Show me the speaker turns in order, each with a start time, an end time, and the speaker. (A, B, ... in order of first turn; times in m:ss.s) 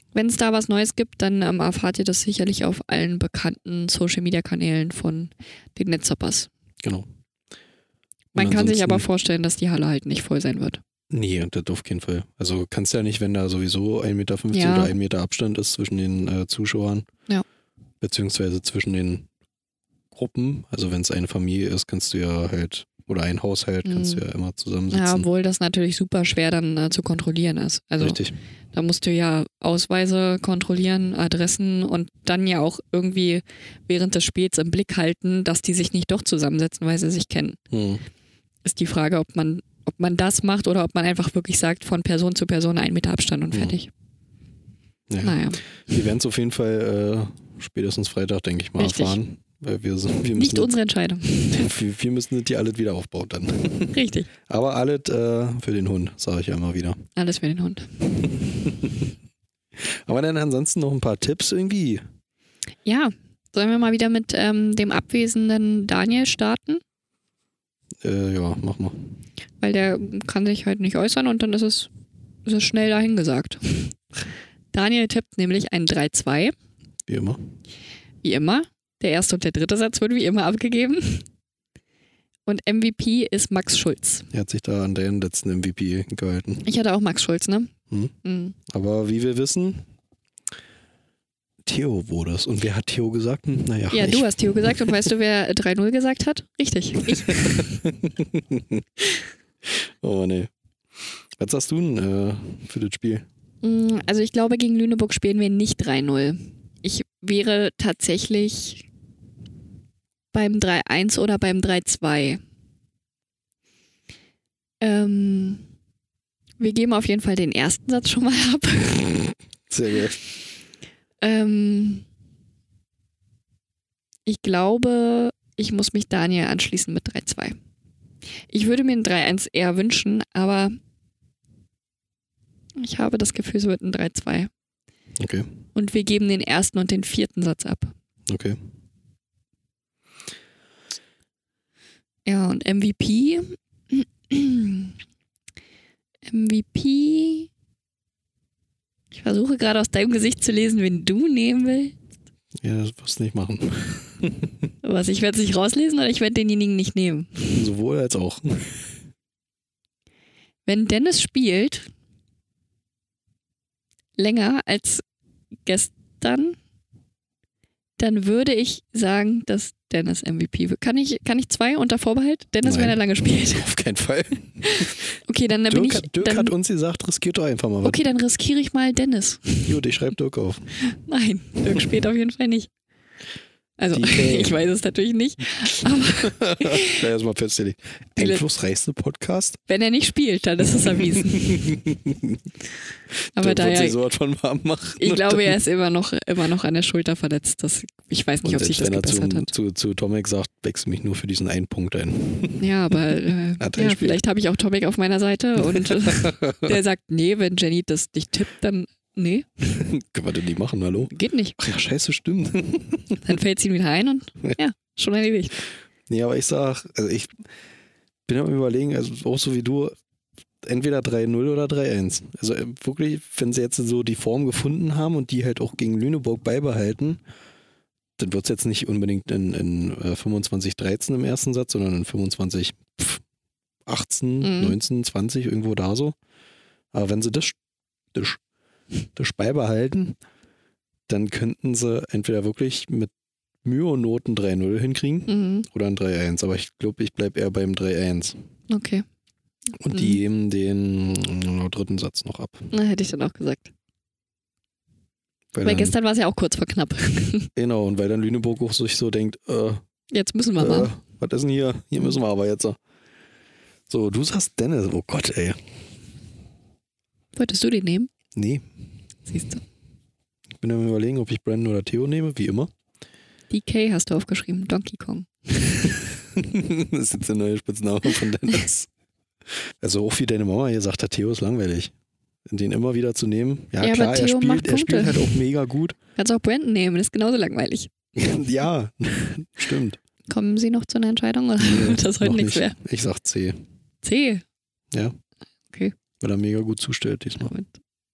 0:00.1-0:06.5 A
0:08.3-0:10.8 A
0:08.4-0:09.0 B
0:11.1-0:17.1 B
0:14.5-0:14.9 A
0:18.0-0:19.3 B
0:20.1-0:25.2 B
0:23.8-0:24.2 A
0:24.9-0:28.2 A
0:28.0-0:28.4 B
0:28.7-0:37.6 A
0:37.7-0:38.0 B
0:38.6-0:43.9 A
0:45.1-0:50.7 B
0:45.2-0:45.6 A
0:48.8-0:49.2 A
0:50.3-0:51.7 A
0:51.5-0:53.9 B
0:53.9-0:54.3 A
0:54.4-0:57.0 B
0:57.2-0:57.9 A
0:58.4-0:59.1 B
0:59.8-1:02.0 B
1:02.8-1:06.8 A
1:08.0-1:09.1 B
1:09.6-1:11.9 A
1:12.4-1:14.0 A
1:14.7-1:16.5 A
1:17.1-1:17.4 B
1:18.2-1:21.2 A
1:22.5-1:24.3 A
1:24.3-1:26.6 B
1:26.6-1:27.7 A
1:28.2-1:28.5 A
1:28.7-1:29.9 B
1:31.6-1:35.0 B
1:33.9-1:37.8 A
1:37.1-1:38.8 B
1:39.6-1:43.2 B
1:43.6-1:48.8 A
1:50.3-1:52.4 A
1:54.8-1:55.6 A
1:56.6-1:59.1 A
1:59.7-2:00.2 B
2:01.2-2:02.0 A
2:04.2-2:07.6 A
2:08.5-2:10.8 A
2:12.8-2:14.5 A
2:15.2-2:15.5 B
2:15.7-2:17.9 A
2:18.3-2:18.6 B
2:22.2-2:24.9 A
2:26.3-2:27.5 A
2:29.1-2:31.9 A
2:32.6-2:34.7 B
2:34.8-2:37.6 A
2:37.5-2:38.9 B
2:40.6-2:41.9 A
2:44.2-2:45.0 A
2:45.6-2:46.6 A
2:48.0-2:53.7 A
2:52.6-2:55.0 B
2:54.6-2:56.5 A
2:55.7-2:58.0 B
2:57.8-2:59.8 A
2:59.6-3:00.7 B
3:00.8-3:02.7 A
3:03.8-3:07.0 A
3:03.9-3:04.6 B
3:06.2-3:09.6 B
3:08.2-3:08.4 A
3:09.7-3:11.7 A
3:11.0-3:12.4 B
3:13.3-3:15.6 B
3:13.3-3:14.0 A
3:15.0-3:19.5 A
3:18.4-3:23.0 B
3:22.6-3:29.5 A
3:23.6-3:24.2 B
3:25.7-3:26.7 B
3:29.7-3:33.2 B
3:31.1-3:31.6 A
3:33.2-3:35.6 A
3:36.1-3:37.4 B
3:38.3-3:39.9 B
3:40.6-3:47.2 B
3:48.2-3:53.2 B
3:53.8-3:56.2 B
3:54.4-3:54.8 A
3:56.9-3:57.6 B
3:58.1-3:58.4 B
3:59.2-4:00.2 B
4:01.1-4:03.1 B
4:03.6-4:08.3 B
4:05.3-4:05.7 A
4:08.7-4:09.0 A
4:09.8-4:12.7 B
4:09.9-4:10.2 A
4:12.7-4:13.7 A
4:15.5-4:15.9 B
4:15.6-4:17.5 A
4:17.6-4:19.8 B
4:20.1-4:20.9 A
4:20.6-4:22.8 B
4:23.9-4:25.7 B
4:27.3-4:28.1 A
4:28.3-4:28.6 B
4:29.3-4:29.6 A
4:30.6-4:32.7 B
4:33.5-4:35.9 A
4:36.2-4:38.9 B
4:39.8-4:41.9 B
4:42.5-4:46.0 B
4:43.8-4:45.4 A
4:46.2-4:47.9 A
4:48.1-4:50.0 B
4:50.3-4:52.8 A
4:51.6-4:53.6 B
4:54.0-4:54.4 A
4:56.2-4:57.5 B
4:57.4-4:57.8 A